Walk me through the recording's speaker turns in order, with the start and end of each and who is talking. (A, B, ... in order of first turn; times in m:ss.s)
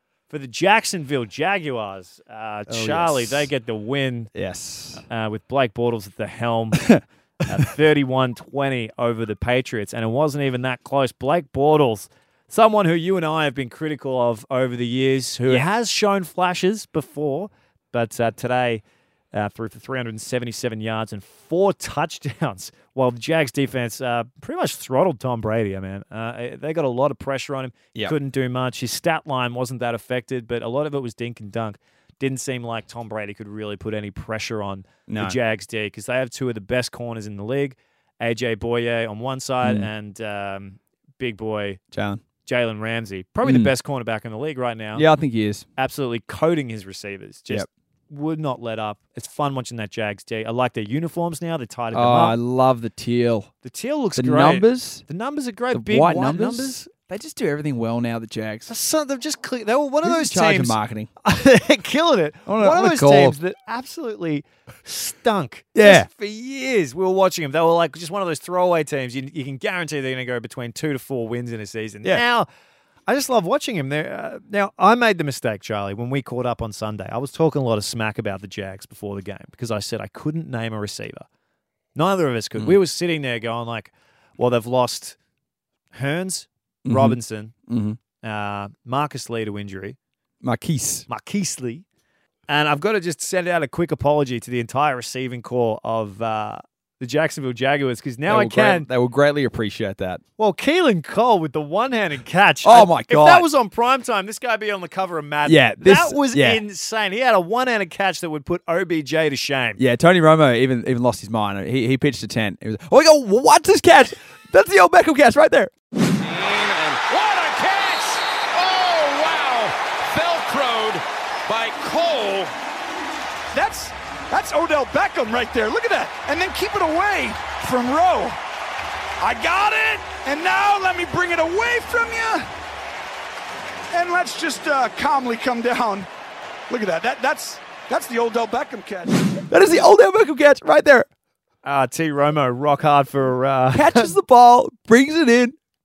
0:00.3-0:04.3 A
0:02.7-0:03.5 B
0:04.3-0:05.0 B
0:05.1-0:06.9 A
0:07.4-0:18.8 A
0:19.3-0:41.8 A
0:35.1-0:35.4 B
0:39.6-0:39.9 B
0:41.9-0:42.2 B
0:42.4-0:45.0 A
0:43.4-0:43.7 B
0:44.9-0:45.6 B
0:45.8-0:52.4 A
0:51.9-0:53.5 B
0:53.6-0:56.8 A
0:54.2-0:55.0 B
0:55.7-0:58.7 B
0:58.7-1:12.5 A
1:00.0-1:01.1 B
1:02.4-1:03.4 B
1:05.7-1:06.1 B
1:13.1-1:21.2 A
1:21.9-1:25.2 A
1:25.9-1:27.5 A
1:26.8-1:28.0 B
1:28.2-1:30.0 A
1:30.4-1:31.0 B
1:31.1-1:31.8 A
1:32.5-1:38.9 A
1:38.3-1:40.2 B
1:40.4-1:49.8 A
1:42.6-1:43.5 B
1:45.4-1:46.6 B
1:49.8-1:55.7 B
1:56.2-2:02.5 C
2:03.5-2:08.4 C
2:09.2-2:12.5 C
2:13.9-2:16.1 C
2:16.7-2:19.3 C
2:19.5-2:21.1 B
2:21.6-2:24.1 A
2:23.7-2:25.6 B